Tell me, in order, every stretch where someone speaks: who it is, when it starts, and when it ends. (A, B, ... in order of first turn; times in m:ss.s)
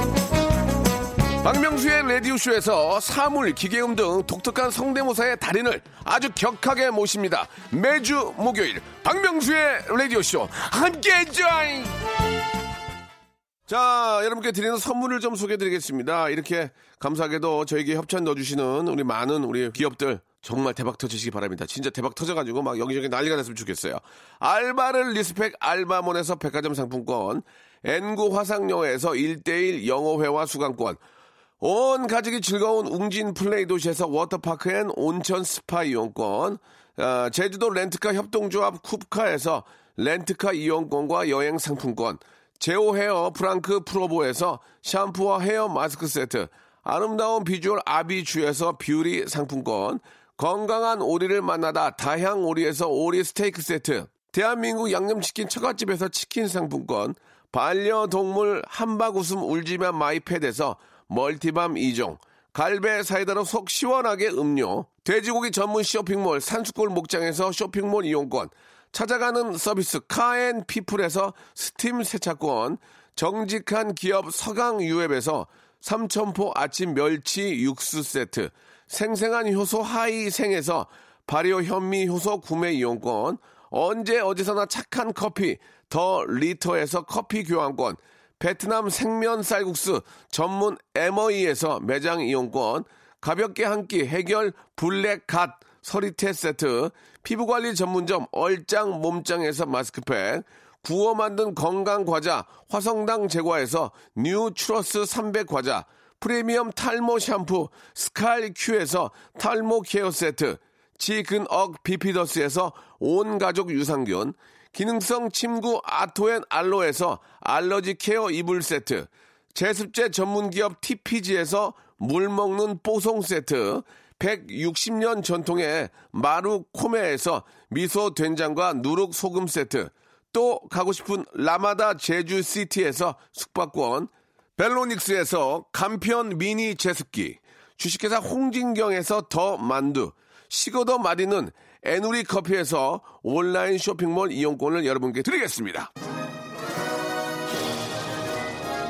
0:01.4-0:12.0 A
0:13.7-0:31.0 A
0:31.6-2:25.9 A